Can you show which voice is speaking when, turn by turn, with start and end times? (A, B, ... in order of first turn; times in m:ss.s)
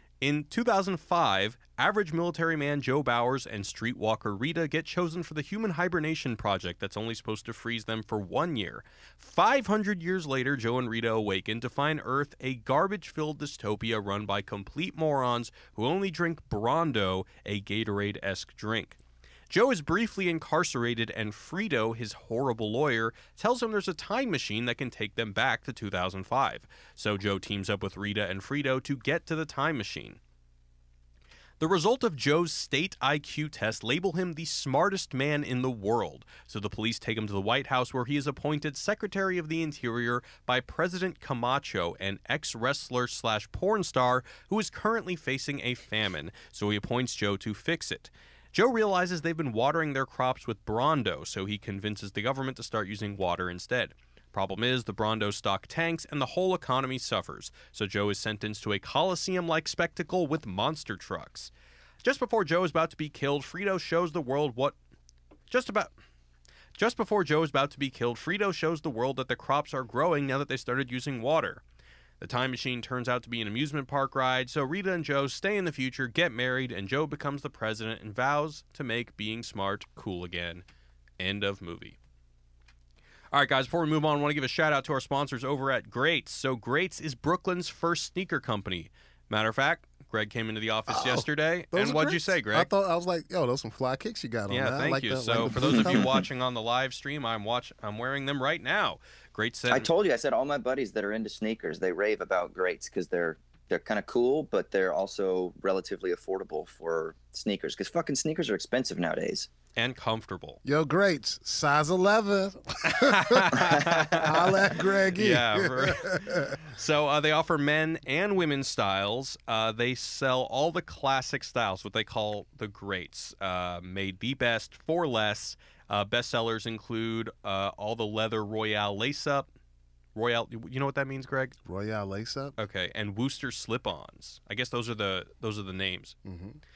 0:00.2-0:30.2 A
0:31.6-1:01.5 A
1:02.0-1:04.8 A
1:05.5-1:05.9 A
1:06.8-1:11.6 A
1:12.2-1:20.6 A
1:21.2-1:22.0 A
1:23.3-1:32.7 A
1:30.9-1:36.2 B
1:34.5-1:39.9 A
1:35.4-1:36.2 C
1:39.7-1:49.5 C
1:49.8-1:50.6 A
1:50.6-1:56.6 B
1:52.8-2:09.5 A
1:53.6-1:54.2 C
2:10.2-2:11.6 A
2:11.6-2:12.6 B
2:12.6-2:16.2 A
2:16.2-2:16.6 B